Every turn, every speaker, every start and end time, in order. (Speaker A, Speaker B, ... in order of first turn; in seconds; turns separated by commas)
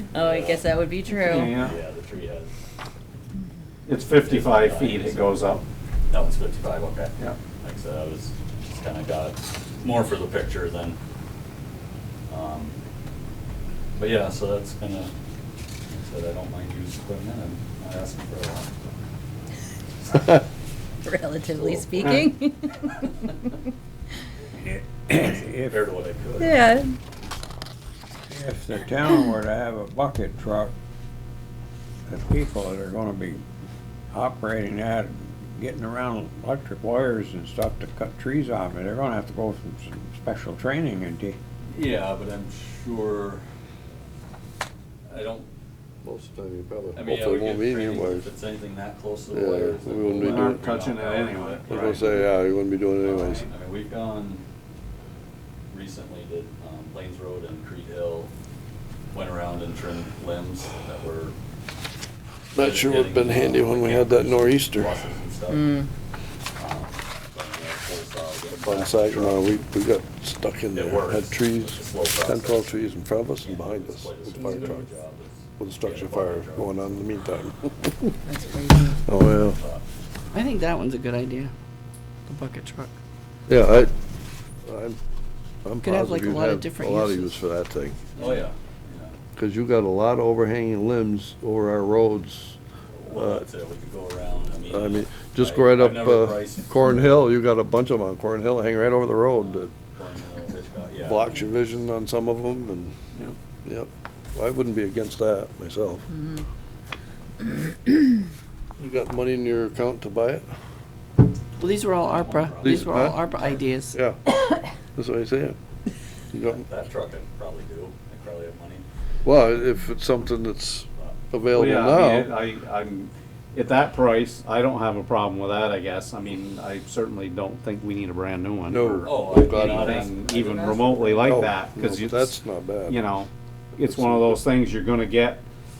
Speaker A: 0.1-1.5, Speaker B: 0.1-0.7, Speaker C: 1.2-1.8, Speaker B: 1.5-2.5, Speaker C: 3.9-5.6, Speaker B: 4.2-5.4, Speaker B: 6.1-11.0, Speaker B: 12.3-12.8, Speaker B: 13.9-15.1, Speaker B: 15.9-18.7, Speaker A: 21.0-23.0, Speaker B: 21.7-22.2, Speaker D: 24.6-25.8, Speaker B: 25.1-26.6, Speaker A: 26.4-26.9, Speaker D: 28.3-30.7, Speaker D: 32.1-33.4, Speaker D: 34.1-41.4, Speaker B: 41.7-43.4, Speaker B: 45.1-45.5, Speaker E: 46.0-48.3, Speaker B: 46.9-52.2, Speaker E: 49.3-50.7, Speaker C: 50.1-52.2, Speaker E: 51.7-53.5, Speaker B: 53.0-54.4, Speaker B: 55.7-58.3, Speaker B: 59.1-61.4, Speaker E: 62.5-65.0, Speaker B: 62.5-65.8, Speaker A: 65.5-65.9, Speaker B: 66.6-69.5, Speaker E: 68.5-74.8, Speaker B: 70.7-77.0, Speaker A: 74.4-74.7, Speaker E: 75.6-78.1, Speaker A: 78.2-79.0, Speaker E: 79.0-79.6, Speaker F: 80.3-81.5, Speaker F: 82.3-82.9, Speaker E: 83.5-83.9, Speaker E: 84.6-85.0, Speaker E: 85.6-88.0, Speaker F: 85.8-87.4, Speaker B: 88.2-89.2, Speaker E: 89.3-92.6, Speaker B: 92.9-96.7, Speaker E: 93.1-93.5, Speaker E: 94.7-99.7, Speaker B: 99.4-101.3, Speaker E: 101.0-103.0, Speaker E: 103.6-106.1, Speaker E: 108.8-110.4, Speaker F: 111.6-114.0, Speaker B: 112.1-113.1, Speaker E: 112.6-113.2, Speaker E: 113.9-114.2, Speaker E: 114.9-115.5, Speaker E: 116.3-116.6, Speaker B: 116.5-118.8, Speaker E: 119.2-122.4, Speaker C: 121.5-135.4, Speaker E: 128.7-130.1, Speaker B: 129.0-131.0, Speaker E: 131.1-133.0, Speaker E: 133.8-134.4